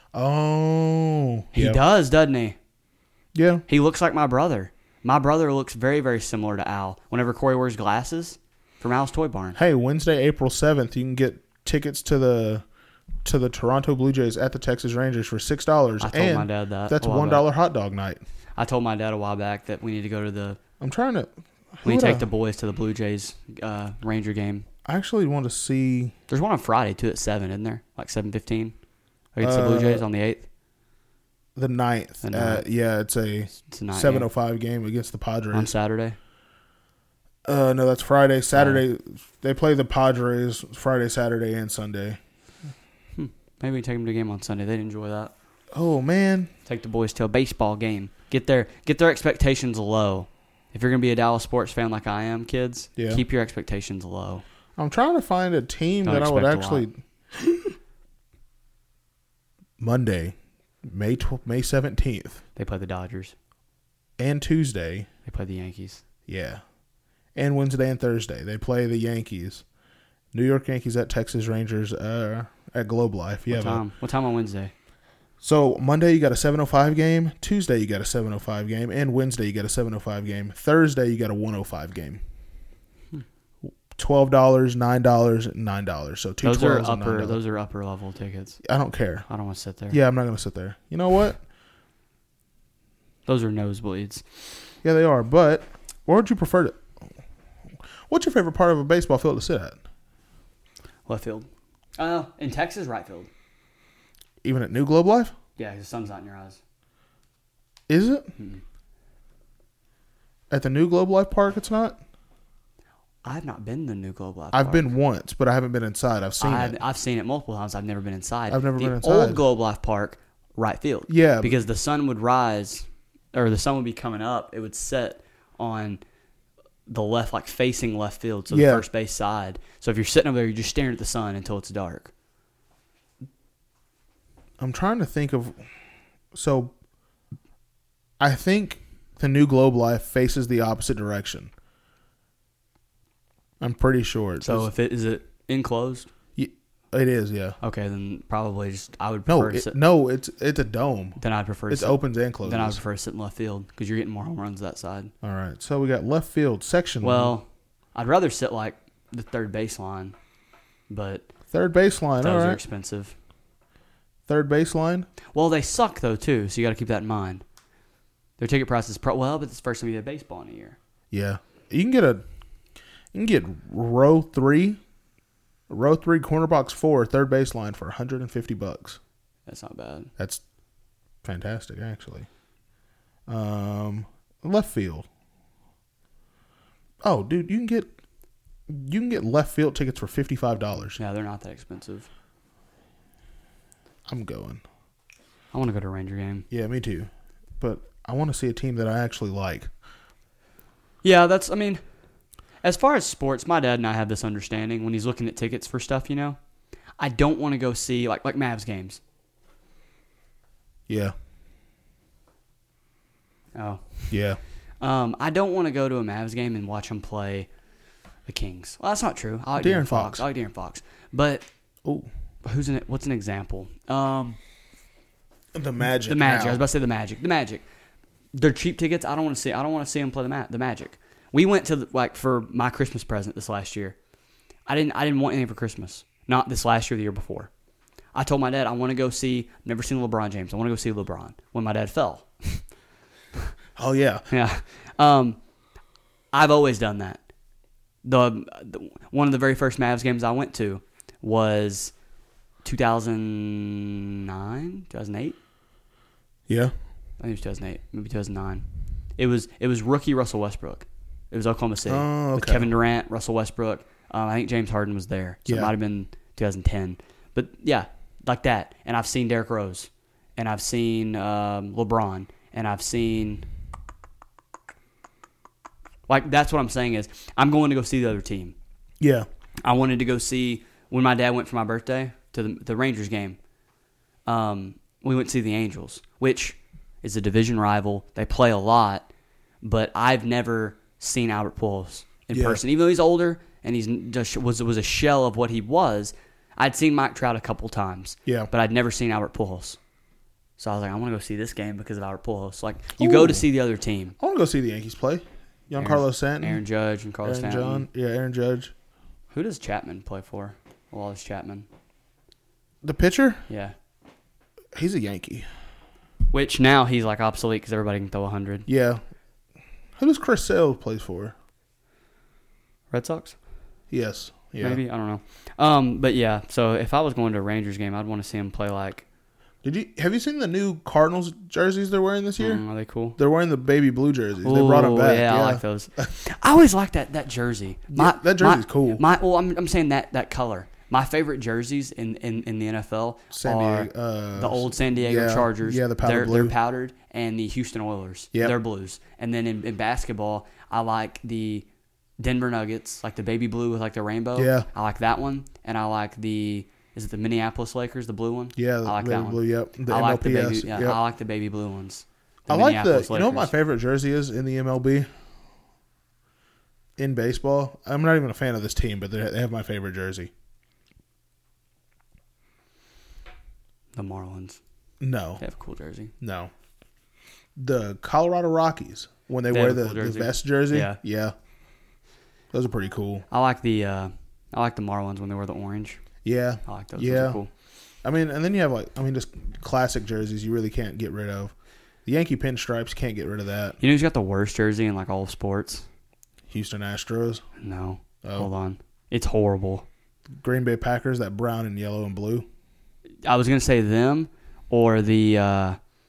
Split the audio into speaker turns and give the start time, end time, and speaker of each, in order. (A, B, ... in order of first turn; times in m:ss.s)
0:00.1-0:01.8 A
0:01.5-0:02.6 B
0:03.3-0:03.6 A
0:03.7-0:09.6 B
0:09.5-0:12.6 A
0:13.2-0:18.2 A
0:16.0-0:17.4 B
0:18.6-0:20.6 B
0:20.8-0:22.2 A
0:21.8-0:24.7 B
0:24.8-0:26.1 A
0:26.3-0:28.7 B
0:29.3-0:30.5 B
0:29.4-0:30.0 A
0:31.6-0:35.7 A
0:32.2-0:32.6 B
0:33.6-0:34.3 B
0:35.5-0:36.2 B
0:37.5-0:42.2 A
0:38.5-0:38.8 B
0:43.1-0:45.3 B
0:45.7-0:46.5 A
0:46.6-0:54.4 B
0:53.0-0:53.2 A
0:54.8-0:57.7 A
0:56.0-0:56.8 B
0:59.8-1:02.4 A
1:02.6-1:03.3 B
1:04.2-1:05.1 A
1:05.2-1:06.0 B
1:06.3-1:06.6 A
1:07.3-1:09.6 A
1:10.3-1:13.8 A
1:13.5-1:14.7 B
1:15.4-1:22.2 A
1:23.9-1:27.4 A
1:26.4-1:28.6 B
1:28.6-1:29.3 A
1:29.3-1:30.0 B
1:29.9-1:31.4 A
1:33.2-1:34.2 B
1:34.8-1:36.8 A
1:38.1-1:39.8 A
1:41.0-1:43.3 B
1:44.4-1:45.3 A
1:45.6-1:46.6 B
1:47.9-1:48.3 A
1:48.4-1:48.6 B
1:50.5-1:52.0 A
1:53.2-1:54.8 B
1:54.5-1:56.8 A
1:56.4-2:06.0 B
1:58.5-1:59.4 A
2:01.1-2:01.6 A
2:06.9-2:12.1 B
2:08.5-2:08.8 A
2:14.6-2:15.6 A
2:16.3-2:16.7 A
2:18.2-2:21.5 A
2:23.6-2:24.7 A
2:24.4-2:26.1 B
2:26.4-2:27.6 A
2:27.6-2:29.8 B
2:29.3-2:32.8 A
2:31.2-2:35.1 B
2:35.2-2:37.3 A
2:37.0-2:40.2 B
2:40.9-2:41.3 B
2:41.5-2:42.6 A
2:42.2-2:43.1 B
2:44.3-2:45.1 A
2:45.3-2:47.4 B
2:48.4-2:50.8 B
2:51.1-2:52.2 A
2:53.1-2:54.8 A
2:55.7-2:59.0 A
2:59.4-3:00.1 B
3:01.2-3:02.3 A
3:03.3-3:05.1 A
3:07.0-3:07.9 A
3:08.7-3:11.0 A
3:11.0-3:12.1 B
3:14.1-3:14.6 A
3:15.5-3:16.5 B
3:16.5-3:19.7 A
3:21.0-3:21.8 B
3:22.6-3:26.4 B
3:27.0-3:29.0 B
3:30.9-3:31.1 A
3:33.5-3:34.1 B
3:34.1-3:34.4 A
3:34.8-3:37.5 B
3:38.2-3:41.5 B
3:39.6-3:40.2 A
3:42.4-3:44.4 B
3:45.5-3:46.6 A
3:46.1-3:47.6 B
3:48.3-3:54.0 B
3:54.7-3:57.5 B
3:58.1-4:02.6 B
4:03.8-4:04.3 A
4:04.3-4:05.4 B
4:06.3-4:07.2 B
4:08.0-4:11.9 B
4:12.6-4:15.4 B
4:17.2-4:18.6 B
4:19.2-4:33.4 B
4:21.9-4:22.7 A
4:36.1-4:38.5 B
4:39.0-4:39.2 A
4:39.6-4:43.4 B
4:44.2-4:49.1 B
4:49.6-4:59.8 B
4:52.3-4:52.6 A
5:00.6-5:04.2 B
5:03.0-5:03.4 A
5:04.2-5:06.6 A
5:05.8-5:07.9 B
5:07.2-5:08.7 A
5:09.3-5:11.7 B
5:12.8-5:13.4 A
5:13.5-5:13.7 B
5:14.7-5:15.4 A
5:16.3-5:18.6 B
5:18.7-5:19.0 A
5:20.0-5:21.3 A
5:22.9-5:23.4 B
5:23.9-5:24.8 A
5:24.6-5:29.0 B
5:29.6-5:32.6 A
5:32.4-5:33.2 B
5:33.2-5:36.1 A
5:34.4-5:51.7 B
5:37.9-5:39.0 A
5:43.3-5:46.5 A
5:52.2-6:03.5 B
5:54.4-5:54.6 A
5:58.6-6:01.0 A
6:02.5-6:05.1 A
6:07.0-6:10.3 A
6:13.9-6:14.6 B
6:15.0-6:15.4 A
6:15.4-6:16.1 B
6:16.2-6:16.5 A
6:17.6-6:21.3 A
6:19.5-6:21.0 B
6:22.5-6:23.3 A
6:23.3-6:26.0 B
6:26.2-6:27.4 A
6:26.6-6:27.5 B
6:28.0-6:31.5 A
6:32.0-6:33.8 A
6:33.8-6:35.8 B
6:36.5-6:37.4 A
6:37.6-6:39.8 B
6:38.2-6:38.5 A
6:40.4-6:42.4 A
6:43.2-6:45.8 B